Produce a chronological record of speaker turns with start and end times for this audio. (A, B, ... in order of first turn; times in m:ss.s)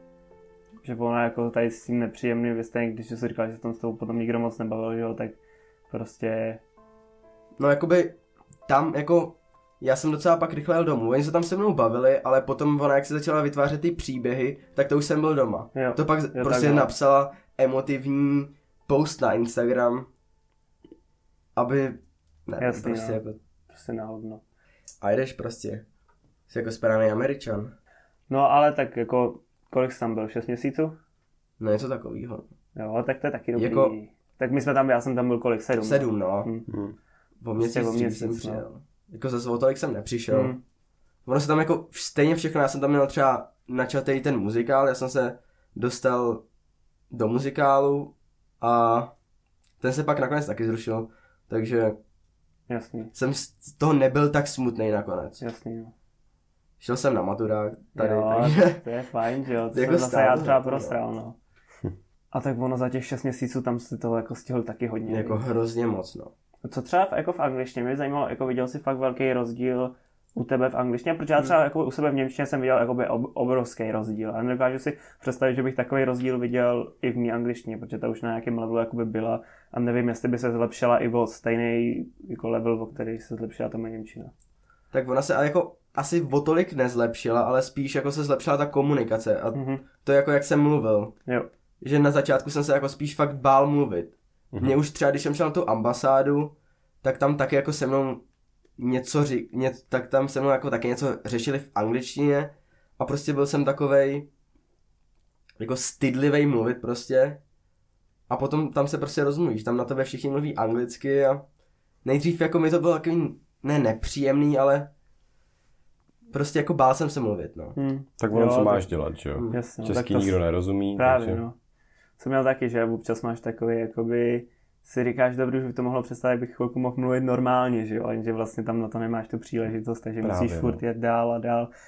0:00.8-0:05.4 A
0:05.9-0:06.6 A
0:07.6-0:20.1 B
0:15.8-0:16.9 A
0:21.6-0:23.4 B
0:22.6-0:24.4 A
0:25.0-0:25.8 B
0:26.5-0:27.7 B
0:28.3-0:30.9 A
0:31.6-0:32.5 B
0:32.8-0:36.7 A
0:33.6-0:34.0 B
0:35.8-0:36.5 B
0:36.7-0:37.0 C
0:37.4-0:40.6 B
0:37.6-0:38.6 A
0:40.3-0:40.6 A
0:41.3-0:46.4 B
0:47.1-0:49.1 B
0:49.8-0:52.0 B
0:52.7-0:53.1 A
0:53.1-0:55.4 B
0:55.4-0:55.9 A
0:56.8-0:58.8 B
0:58.0-1:01.4 A
0:59.7-1:01.0 B
1:02.3-1:05.4 A
1:05.1-1:06.3 B
1:06.6-1:24.3 A
1:24.9-1:31.2 B
1:29.5-1:29.8 A
1:31.8-1:38.2 B
1:38.8-1:44.3 B
1:45.6-1:47.4 B
1:48.3-1:51.4 B
1:52.0-1:54.9 B
1:56.3-1:57.8 B
1:57.8-1:58.9 A
1:58.2-2:01.4 C
1:59.5-2:00.4 A
2:01.0-2:01.6 A
2:02.2-2:11.7 A
2:10.2-2:10.8 C